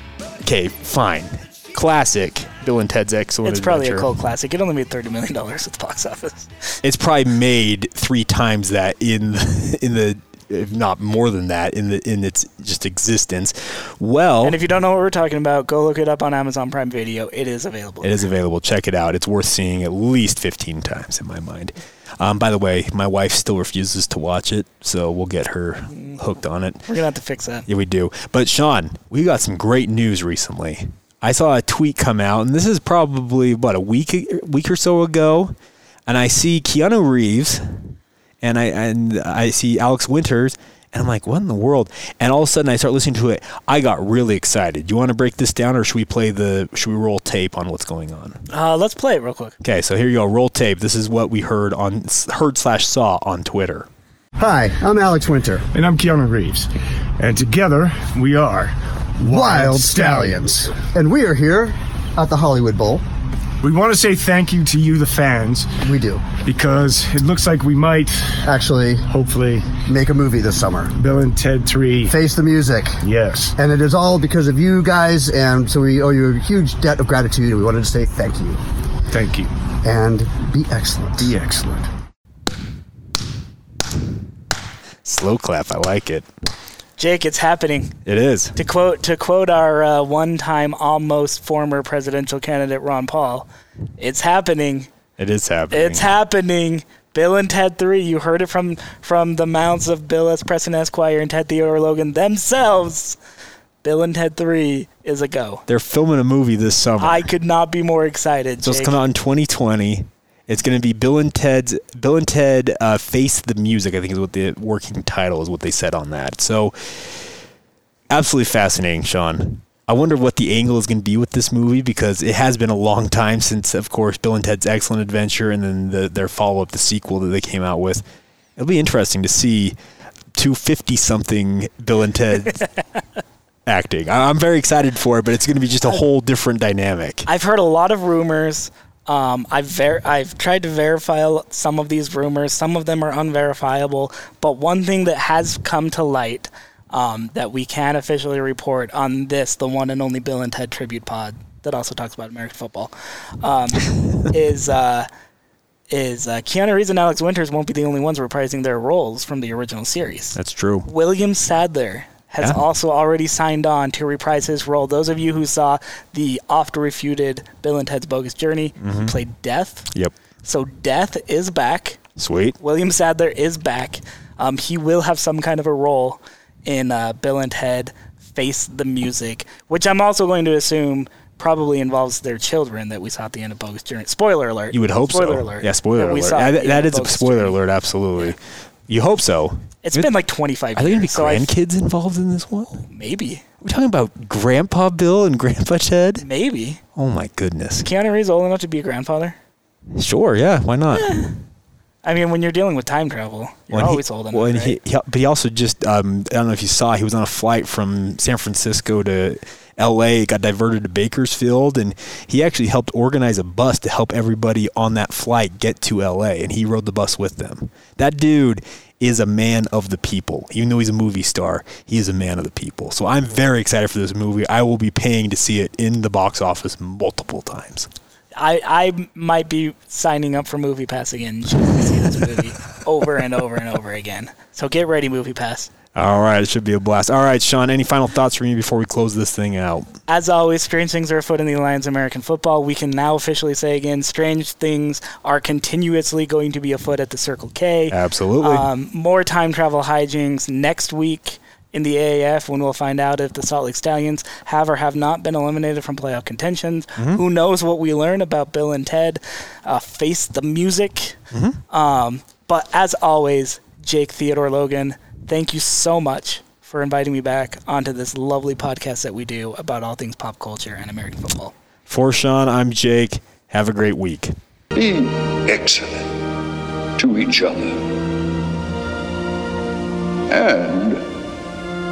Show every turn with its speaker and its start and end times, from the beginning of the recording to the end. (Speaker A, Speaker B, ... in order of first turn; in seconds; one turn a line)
Speaker A: 0.4-4.1
Speaker B: 3.4-6.5
Speaker A: 6.8-14.6
Speaker B: 14.4-18.1
Speaker A: 18.0-26.9
Speaker B: 25.9-26.2
Speaker B: 26.9-27.7
Speaker A: 27.7-35.5
Speaker A: 36.1-48.5
Speaker B: 48.5-49.6
Speaker A: 49.6-53.9
Speaker C: 54.4-55.6
Speaker D: 55.7-60.5
Speaker C: 59.2-63.0
Speaker D: 63.6-68.5
Speaker C: 65.8-66.3
Speaker C: 68.5-69.0
Speaker D: 69.1-69.8
Speaker C: 69.9-70.9
Speaker D: 71.0-72.2
Speaker C: 72.1-73.0
Speaker D: 73.0-73.5
Speaker C: 73.6-78.6
Speaker D: 79.1-79.5
Speaker C: 79.8-81.4
Speaker D: 81.2-81.8
Speaker A: 85.0-86.3
Speaker B: 87.0-88.0
Speaker A: 88.0-88.5
Speaker B: 88.6-93.5
Speaker B: 94.0-94.9
Speaker A: 95.2-96.2
Speaker B: 95.7-103.2
Speaker B: 103.8-105.6
Speaker A: 105.7-107.3
Speaker B: 107.0-109.0
Speaker A: 108.6-117.2
Speaker A: 118.1-128.0
Speaker A: 128.6-129.8
Speaker A: 130.3-132.7
Speaker A: 133.7-137.3
Speaker B: 137.3-155.1
Speaker B: 155.9-169.9
Speaker A: 160.3-160.9
Speaker A: 168.8-169.2
Speaker B: 170.4-172.0
Speaker A: 172.2-172.6
Speaker B: 172.6-187.6
Speaker A: 184.7-190.2
Speaker B: 189.8-191.5
Speaker A: 190.8-192.8
Speaker B: 192.9-193.4
Speaker A: 193.6-196.3
Speaker B: 196.2-196.8
Speaker A: 196.9-197.9
Speaker B: 197.8-199.4
Speaker A: 199.9-201.3
Speaker B: 200.9-201.3
Speaker B: 202.0-204.8
Speaker A: 203.7-227.9
Speaker B: 228.4-235.7
Speaker A: 235.9-239.9
Speaker B: 240.1-261.2
Speaker A: 247.9-248.7
Speaker A: 257.0-257.2
Speaker A: 261.3-261.6
Speaker B: 261.7-271.5
Speaker A: 271.9-274.4
Speaker E: 274.7-276.2
Speaker E: 277.0-277.9
Speaker E: 280.3-281.1